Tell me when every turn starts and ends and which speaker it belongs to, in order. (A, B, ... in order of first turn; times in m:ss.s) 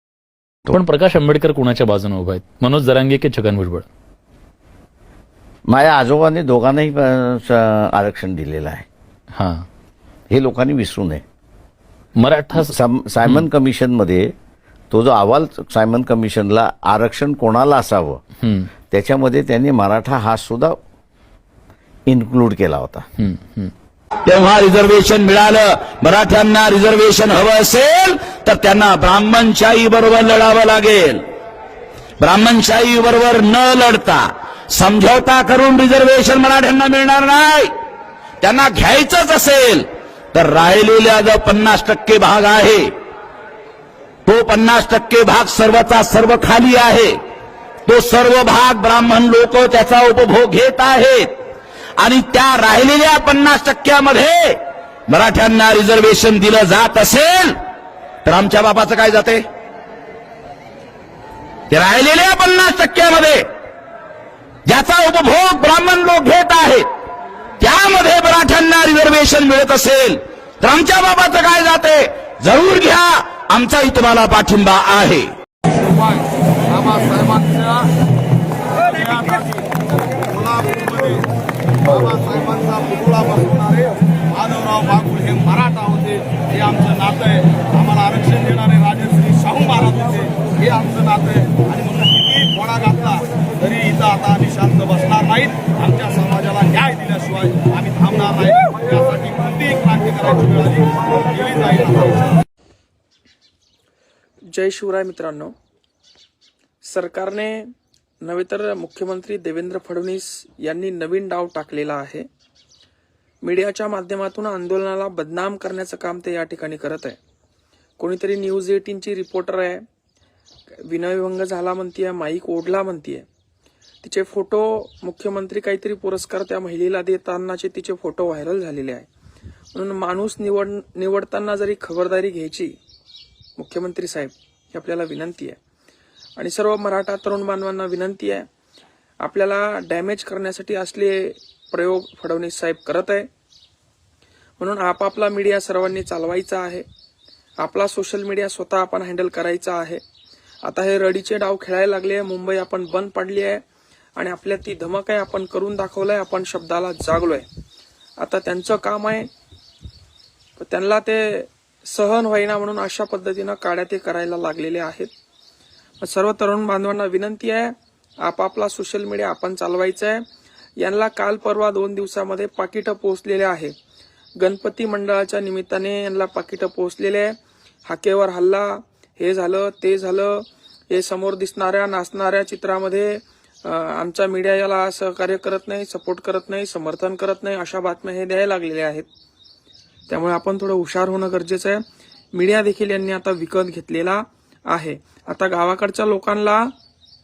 0:00.7-0:03.9 A
0:05.7-0:08.8 B
0:09.4-0:09.6 A
0:10.3-0:11.2 B
0:12.2-0:13.4 A
0:12.6-0:14.3 B
0:14.9-0:18.2 B
0:18.9-0:20.8 B
0:22.1-0:23.1 B
0:23.2-0:23.7 A
0:24.3-0:31.2 C
0:32.2-0:37.7 C
0:38.4-0:42.9 C
0:44.3-0:47.2 C
0:47.9-0:51.4 C
0:52.0-0:57.6 C
0:58.2-0:59.4 C
1:01.7-1:03.4 C
1:04.7-1:06.8 C
1:07.6-1:15.3 C
1:15.8-1:17.9 D
1:18.8-1:19.7 D
1:20.3-1:21.2 D
1:21.8-1:42.2 D
1:44.5-1:45.5 E
1:46.8-1:47.7 E
1:48.2-1:52.3 E
1:53.4-1:57.2 E
1:58.0-1:59.8 E
2:00.9-2:03.2 E
2:04.0-2:09.1 E
2:09.7-2:12.8 E
2:13.6-2:15.6 E
2:16.4-2:18.5 E
2:19.2-2:23.3 E
2:24.6-2:26.8 E
2:27.6-2:30.0 E
2:30.6-2:33.6 E
2:34.2-2:37.5 E
2:38.2-2:39.3 E
2:40.6-2:45.1 E
2:46.0-2:50.2 E
2:50.8-2:53.7 E
2:54.4-3:09.1 E
3:10.1-3:11.8 E
3:12.3-3:16.7 E